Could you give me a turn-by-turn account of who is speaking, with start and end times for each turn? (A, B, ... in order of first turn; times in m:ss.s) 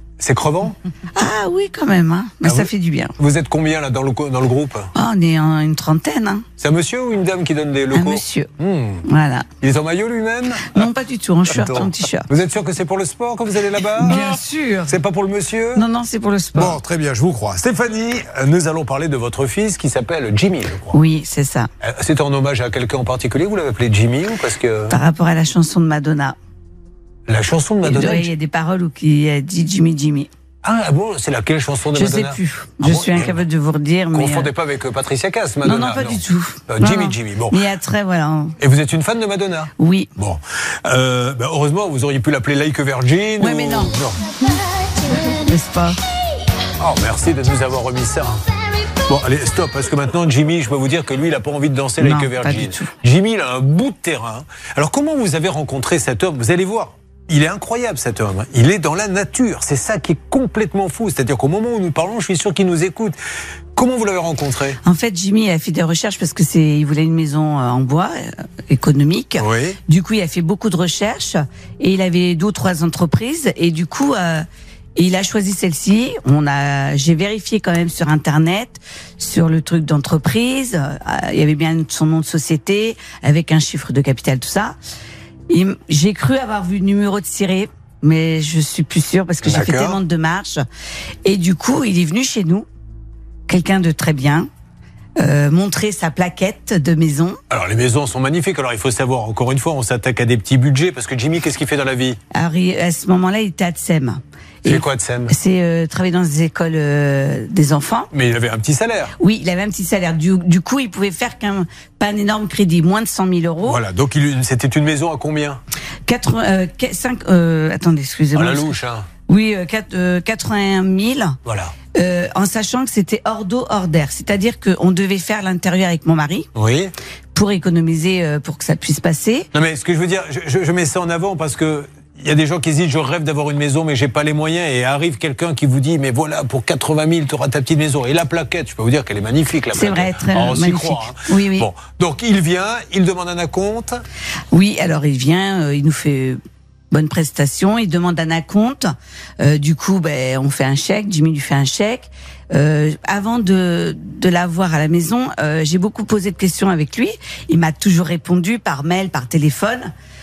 0:00.2-0:00.8 A
0:01.2-0:03.2 B
0:02.4-0:04.9 A
0:05.0-0:06.4 B
0:06.6-0:09.0 A
0:07.9-0:08.5 B
0:09.0-0:09.5 B
0:09.6-0:10.9 A
0:10.7-0:12.3 B
0:11.5-0:14.4 A
0:14.0-0:15.0 B
0:14.9-0:15.8 A
0:15.8-0:16.8 B
0:16.5-0:21.0 A
0:20.9-0:21.7 B
0:21.8-0:25.0 A
0:24.9-0:26.4 B
0:27.3-0:28.3 A
0:27.8-0:30.3 B
0:30.6-0:33.4 A
0:31.9-0:34.5 B
0:34.1-0:37.6 A
0:35.6-0:38.6 B
0:38.6-0:44.2 A
0:39.8-0:40.1 B
0:43.4-0:44.0 B
0:45.1-0:46.0 B
0:46.8-0:48.4 A
0:49.0-1:03.2 A
0:52.0-0:52.9 B
1:03.8-1:04.8 A
1:04.8-1:14.4 B
1:09.4-1:09.8 A
1:15.0-1:24.8 B
1:25.5-1:30.6 B
1:29.4-1:30.0 A
1:31.2-1:32.7 B
1:33.5-1:34.5 B
1:35.2-1:37.4 B
1:37.5-1:42.2 A
1:42.3-1:48.1 B
1:44.6-1:45.3 A
1:48.1-1:49.1 A
1:49.2-1:53.8 B
1:53.6-1:55.6 A
1:56.1-1:58.8 B
1:58.3-1:59.1 A
1:59.3-2:01.4 B
2:01.5-2:01.7 A
2:02.0-2:06.5 B
2:06.6-2:06.9 A
2:07.4-2:09.5 B
2:09.5-2:24.0 A
2:19.7-2:21.7 B
2:24.5-2:26.4 B
2:26.9-2:39.9 B